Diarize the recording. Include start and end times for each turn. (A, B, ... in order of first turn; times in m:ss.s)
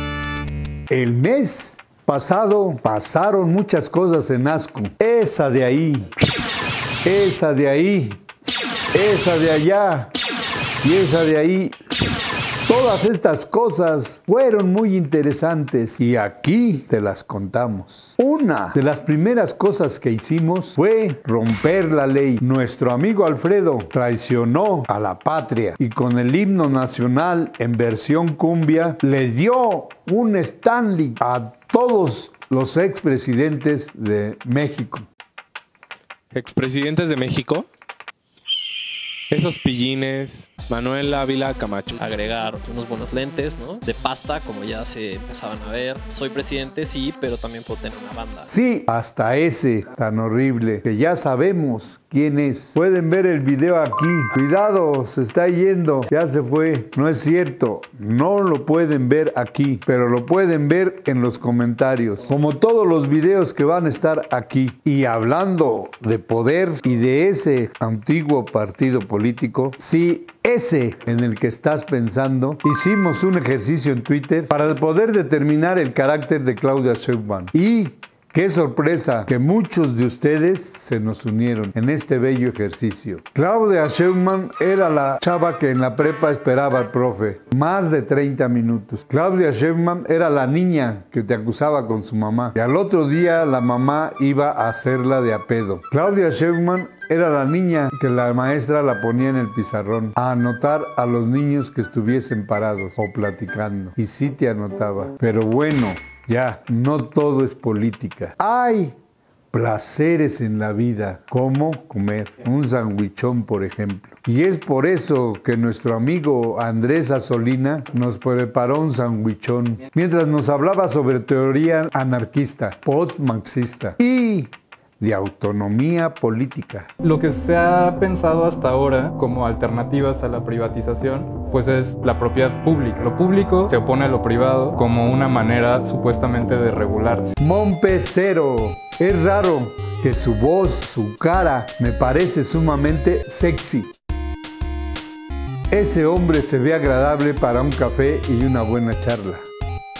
0:00.9-0:06.1 A
0:07.0-0:08.2 A
0:08.9-0:10.1 A
0:10.8-0:11.8 A
0:12.7-0:35.1 A
0:36.3-0:37.6 B
0:39.3-0:42.0 B
0:42.0-0:48.5 C
0:48.5-1:49.0 A
1:49.5-2:06.9 A
2:07.0-2:17.3 D
2:17.4-2:23.9 A
2:25.7-2:29.4 A